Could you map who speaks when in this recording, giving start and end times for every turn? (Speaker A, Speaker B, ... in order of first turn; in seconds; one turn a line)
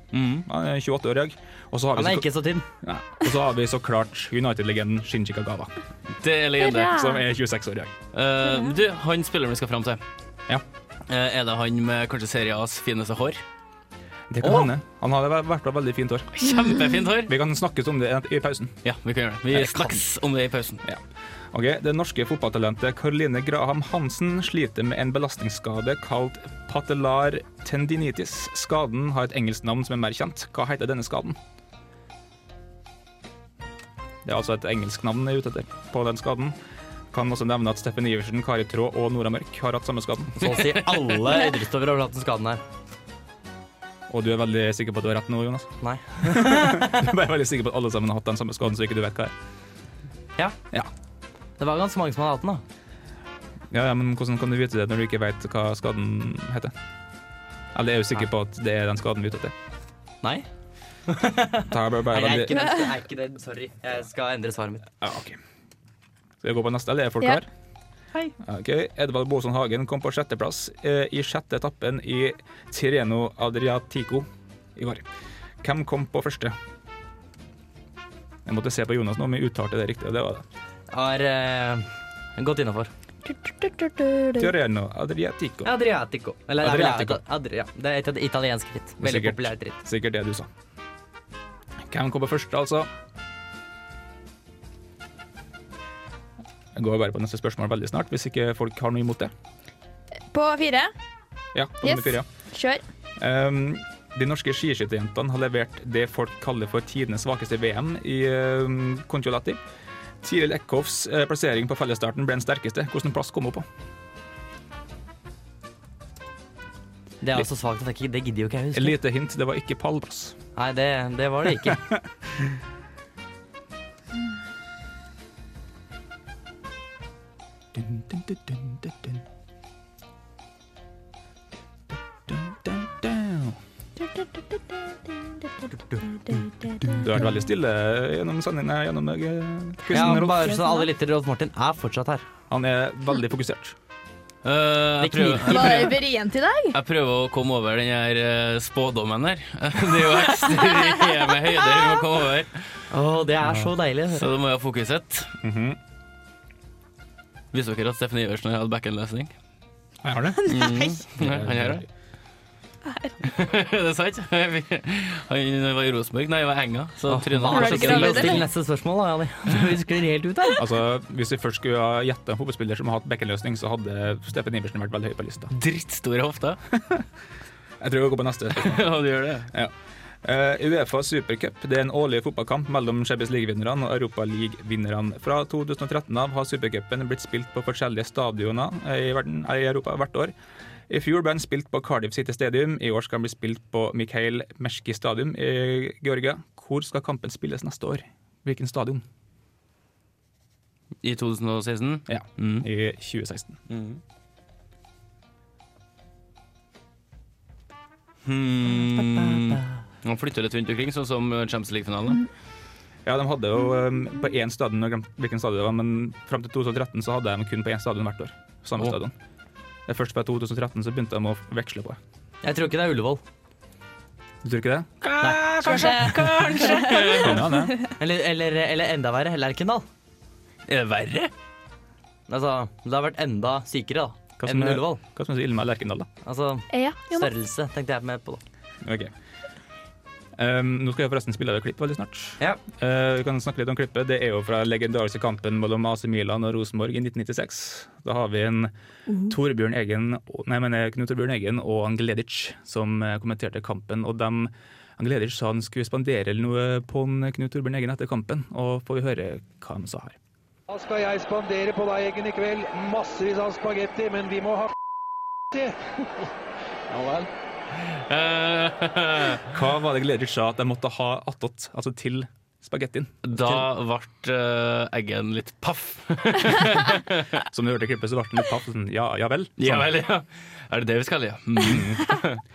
Speaker A: 0.1-0.5
Speaker B: 0.4-2.3
Speaker C: 1.9-2.7
Speaker B: 2.8-5.7
Speaker A: 6.2-7.0
Speaker D: 6.6-7.2
Speaker B: 6.8-7.9
Speaker A: 8.1-10.0
Speaker D: 8.4-8.7
Speaker A: 11.1-13.4
Speaker B: 14.3-16.5
Speaker A: 16.4-17.3
Speaker D: 16.5-16.8
Speaker B: 17.2-18.8
Speaker A: 18.8-20.8
Speaker B: 19.5-20.0
Speaker B: 20.8-31.4
Speaker B: 34.2-36.6
Speaker B: 37.1-40.5
Speaker C: 40.4-42.6
Speaker B: 44.1-49.3
Speaker C: 45.8-47.1
Speaker C: 51.6-52.6
Speaker B: 53.7-56.7
Speaker B: 57.7-59.5
Speaker C: 61.1-64.8
Speaker B: 61.7-62.7
Speaker B: 65.0-65.4
Speaker B: 66.4-67.5
Speaker B: 68.4-75.1
Speaker B: 75.6-76.6
Speaker B: 78.5-80.4
Speaker C: 80.9-81.9
Speaker C: 82.4-82.9
Speaker D: 83.2-84.5
Speaker B: 84.4-85.7
Speaker C: 85.6-89.8
Speaker B: 86.6-87.2
Speaker B: 89.0-90.5
Speaker B: 91.9-92.9
Speaker B: 96.8-99.3
Speaker D: 100.3-100.9
Speaker B: 101.5-102.3
Speaker D: 101.8-102.8
Speaker B: 103.2-109.6
Speaker B: 110.2-113.7
Speaker C: 117.2-119.0
Speaker B: 118.7-120.4
Speaker C: 120.6-121.8
Speaker B: 121.7-122.0
Speaker B: 127.8-129.2
Speaker B: 132.3-133.6
Speaker B: 136.9-140.5
Speaker C: 139.9-142.2
Speaker D: 140.0-140.9
Speaker B: 142.5-143.8
Speaker A: 144.4-146.0
Speaker C: 145.0-145.9
Speaker D: 145.5-146.8
Speaker A: 146.7-152.6
Speaker C: 152.9-154.2
Speaker A: 154.1-155.3
Speaker B: 155.4-155.8
Speaker A: 157.5-159.3
Speaker B: 160.0-160.6
Speaker D: 160.4-161.0
Speaker A: 160.5-161.8
Speaker B: 161.2-161.9
Speaker D: 162.9-163.2
Speaker A: 163.2-168.4
Speaker C: 167.1-170.6
Speaker D: 167.5-168.4
Speaker B: 170.6-175.5
Speaker A: 175.5-176.6
Speaker B: 177.8-178.9
Speaker A: 178.6-179.5
Speaker B: 180.2-190.3
Speaker B: 190.9-199.0
Speaker A: 201.0-202.7
Speaker B: 202.1-203.6
Speaker A: 203.7-204.0
Speaker A: 208.3-212.2
Speaker C: 209.1-209.6
Speaker B: 213.1-219.1
Speaker B: 219.9-222.0
Speaker C: 222.4-223.2
Speaker B: 224.4-225.1
Speaker A: 225.0-227.4
Speaker C: 225.2-225.9
Speaker D: 225.7-227.3
Speaker B: 227.1-227.8
Speaker C: 228.0-229.9
Speaker A: 230.7-231.3
Speaker C: 232.3-235.0
Speaker B: 234.4-236.1
Speaker C: 236.2-238.4
Speaker D: 236.7-237.3
Speaker B: 238.8-239.1
Speaker B: 240.4-248.7
Speaker B: 249.2-260.2
Speaker E: 260.7-264.7
Speaker E: 265.5-265.8
Speaker E: 267.0-267.2
Speaker A: 267.8-269.5
Speaker B: 269.5-273.3
Speaker A: 273.2-277.4
Speaker B: 277.5-279.9
Speaker A: 279.6-282.4
Speaker B: 281.6-282.2